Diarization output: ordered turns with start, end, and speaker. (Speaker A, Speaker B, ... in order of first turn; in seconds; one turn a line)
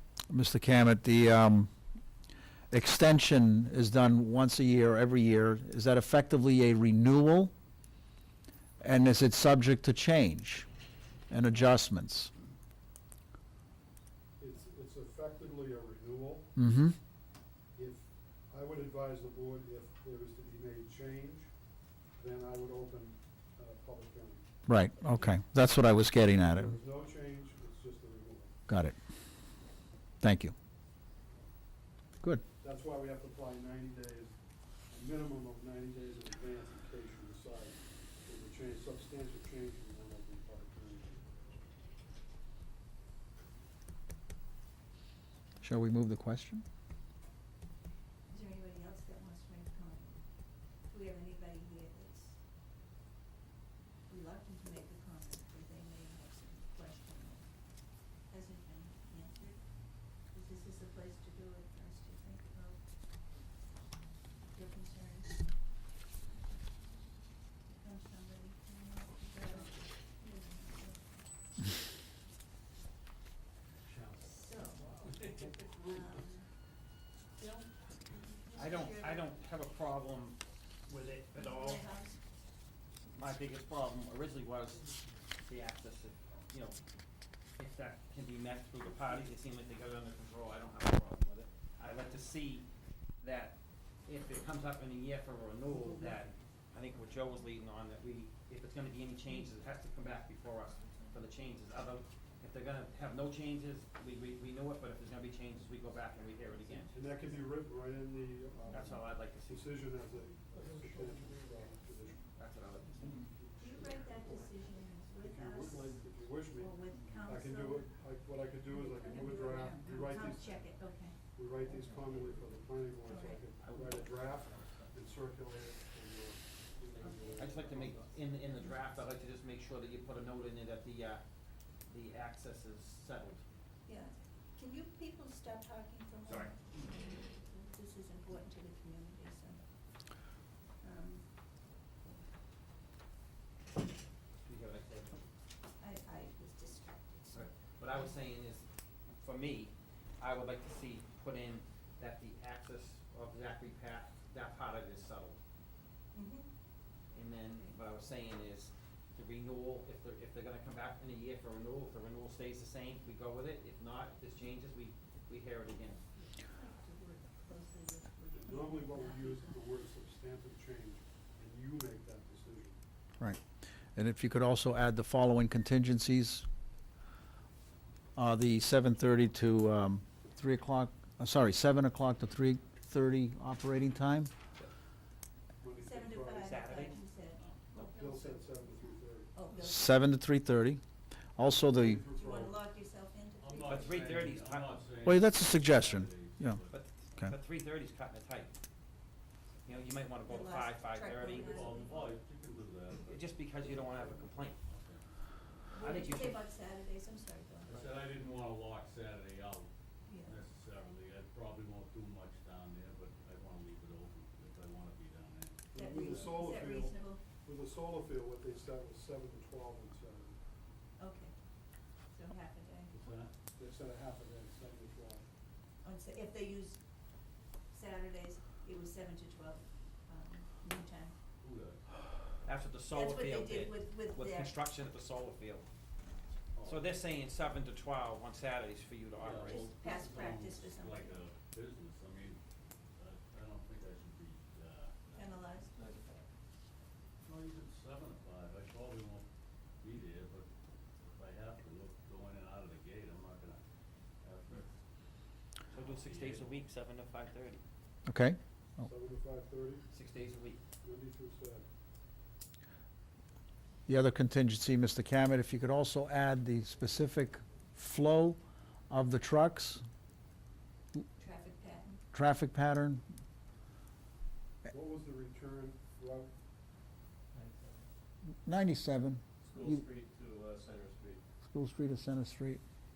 Speaker A: 0.3-1.7
Speaker A: 2.7-7.5
Speaker A: 8.8-10.7
Speaker A: 11.3-12.3
Speaker B: 14.4-16.6
Speaker A: 16.6-17.0
Speaker B: 17.7-21.5
Speaker B: 22.1-25.4
Speaker A: 24.7-26.8
Speaker B: 26.5-28.6
Speaker A: 28.7-28.9
Speaker A: 30.2-30.5
Speaker B: 32.6-41.3
Speaker A: 45.6-46.6
Speaker C: 48.3-50.2
Speaker C: 50.7-52.4
Speaker C: 54.1-62.8
Speaker C: 64.5-65.4
Speaker C: 67.7-71.2
Speaker D: 73.9-75.6
Speaker C: 74.2-76.5
Speaker C: 77.4-79.3
Speaker E: 78.5-81.9
Speaker C: 81.3-82.2
Speaker E: 83.1-86.8
Speaker E: 87.6-92.7
Speaker E: 93.2-106.9
Speaker C: 100.7-101.2
Speaker C: 106.7-107.4
Speaker B: 106.9-112.2
Speaker E: 108.7-110.0
Speaker F: 110.5-112.2
Speaker E: 112.4-113.0
Speaker F: 112.8-114.5
Speaker B: 113.0-114.3
Speaker C: 113.6-115.8
Speaker B: 115.2-120.7
Speaker F: 115.5-117.3
Speaker C: 116.6-117.9
Speaker C: 118.9-121.2
Speaker F: 119.1-119.9
Speaker B: 121.3-128.0
Speaker F: 121.7-122.6
Speaker C: 123.0-123.5
Speaker E: 123.6-124.3
Speaker F: 124.7-125.0
Speaker F: 127.0-128.2
Speaker E: 127.4-131.2
Speaker E: 131.8-133.4
Speaker C: 133.9-141.8
Speaker E: 136.3-136.5
Speaker E: 144.4-145.2
Speaker C: 145.8-148.2
Speaker E: 147.3-155.4
Speaker C: 156.1-156.5
Speaker E: 157.1-166.0
Speaker C: 157.5-157.8
Speaker C: 166.0-169.6
Speaker B: 168.3-172.8
Speaker A: 173.9-176.4
Speaker A: 178.2-184.3
Speaker B: 185.6-186.6
Speaker C: 185.8-190.0
Speaker E: 186.4-187.0
Speaker D: 187.3-187.6
Speaker B: 187.9-189.3
Speaker A: 189.6-190.8
Speaker A: 191.4-192.0
Speaker B: 191.4-192.6
Speaker C: 192.1-194.3
Speaker D: 193.4-196.8
Speaker E: 193.7-194.8
Speaker A: 195.1-196.6
Speaker E: 196.7-198.5
Speaker E: 199.7-201.8
Speaker C: 200.2-202.2
Speaker D: 201.2-205.1
Speaker E: 203.1-204.6
Speaker C: 205.7-207.9
Speaker E: 205.8-206.4
Speaker D: 207.7-209.7
Speaker C: 210.1-210.4
Speaker D: 210.2-216.3
Speaker C: 215.7-217.2
Speaker B: 215.7-220.4
Speaker C: 221.0-221.3
Speaker C: 222.1-223.2
Speaker D: 222.9-223.3
Speaker B: 223.5-225.2
Speaker C: 225.8-226.8
Speaker C: 227.7-231.2
Speaker D: 231.4-231.8
Speaker E: 232.4-235.7
Speaker C: 232.9-234.6
Speaker D: 236.6-236.9
Speaker E: 236.6-239.8
Speaker D: 239.1-242.4
Speaker C: 239.4-241.3
Speaker D: 243.0-245.4
Speaker C: 245.1-245.8
Speaker F: 245.7-246.2
Speaker D: 247.2-249.3
Speaker D: 249.8-250.5
Speaker D: 251.1-253.6
Speaker D: 254.2-254.7
Speaker E: 255.7-257.6
Speaker D: 255.8-256.6
Speaker A: 258.1-258.4
Speaker B: 258.8-259.9
Speaker E: 259.9-260.6
Speaker B: 260.8-261.7
Speaker A: 263.9-268.4
Speaker A: 268.9-269.8
Speaker C: 271.2-272.0
Speaker A: 272.1-273.0
Speaker B: 274.7-276.3
Speaker F: 277.3-277.9
Speaker A: 278.4-279.2
Speaker F: 279.4-281.2
Speaker A: 281.5-282.6